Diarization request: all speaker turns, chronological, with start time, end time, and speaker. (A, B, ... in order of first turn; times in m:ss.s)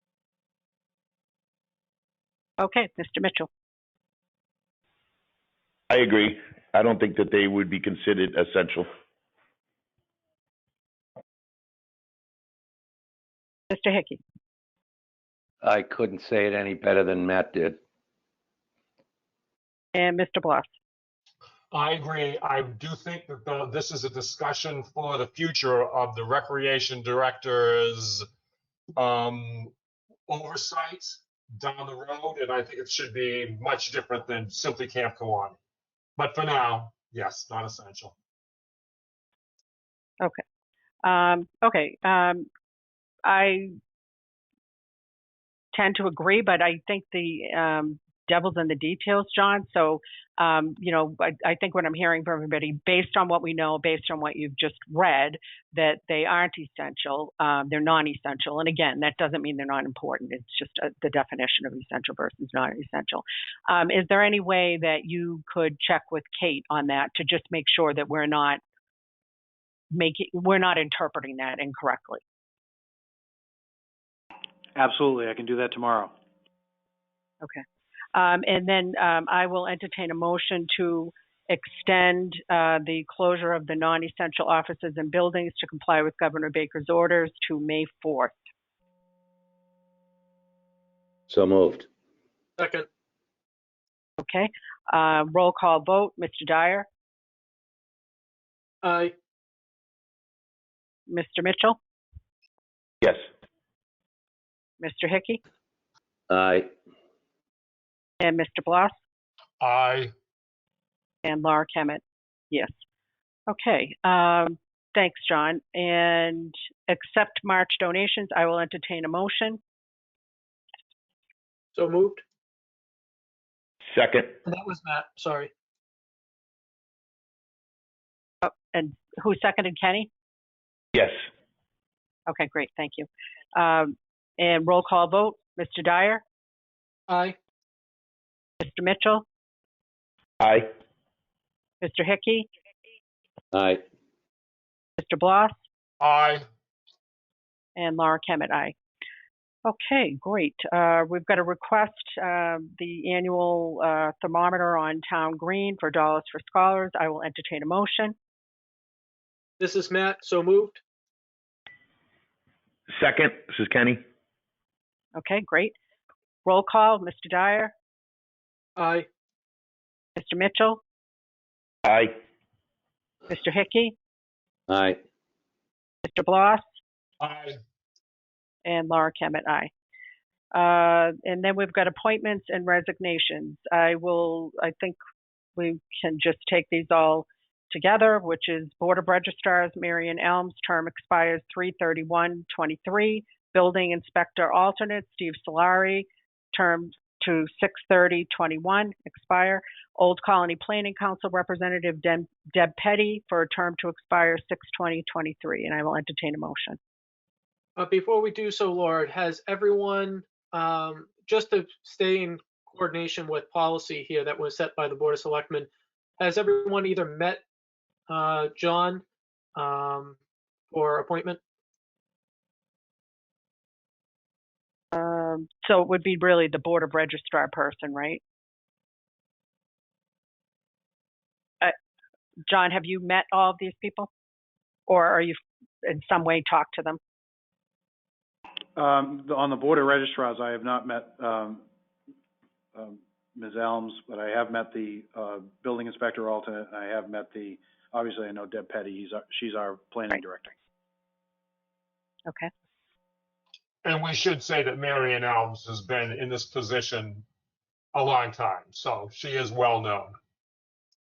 0:02.6-0:03.5 A
0:05.9-0:08.9 B
0:13.7-0:14.2 A
0:15.6-0:17.8 C
0:20.0-0:20.7 A
0:21.7-0:28.2 D
0:29.0-0:29.7 D
0:30.3-0:35.6 D
0:36.2-0:38.1 D
0:41.0-0:42.5 A
0:43.2-0:43.7 A
0:45.7-1:08.6 A
1:09.9-1:12.2 A
1:14.8-1:16.1 E
1:18.1-1:28.4 A
1:31.3-1:31.9 C
1:32.6-1:32.9 F
1:34.2-1:36.9 A
1:38.8-1:39.1 F
1:41.1-1:41.8 A
1:44.8-1:45.4 A
1:46.3-1:46.7 C
1:48.2-1:49.0 A
1:49.6-1:50.1 D
1:51.2-1:52.7 A
1:53.5-1:59.6 A
2:01.7-2:02.2 F
2:03.9-2:04.3 B
2:04.4-2:05.5 F
2:08.4-2:10.1 A
2:10.9-2:11.2 B
2:12.3-2:16.2 A
2:17.1-2:17.4 F
2:18.6-2:19.2 A
2:20.4-2:20.7 B
2:21.8-2:22.5 A
2:23.5-2:23.8 C
2:25.0-2:25.6 A
2:26.0-2:26.4 D
2:27.8-2:28.8 A
2:29.6-2:38.2 A
2:39.6-2:40.8 F
2:43.0-2:44.0 B
2:45.2-2:45.8 A
2:46.4-2:47.7 A
2:48.8-2:49.1 F
2:50.2-2:50.8 A
2:51.8-2:52.2 B
2:53.3-2:54.0 A
2:54.7-2:55.0 C
2:56.0-2:56.6 A
2:57.2-2:57.6 D
2:58.6-2:59.7 A
3:00.5-3:05.0 A
3:05.6-3:26.8 A
3:27.8-3:37.4 F
3:38.1-3:39.0 F
3:39.6-3:40.2 F
3:40.7-3:41.4 F
3:44.9-3:48.2 A
3:52.5-3:54.1 A
3:54.9-3:57.0 A
3:58.8-4:01.6 E
4:02.8-4:10.5 E
4:13.8-4:17.2 D
4:17.9-4:20.1 D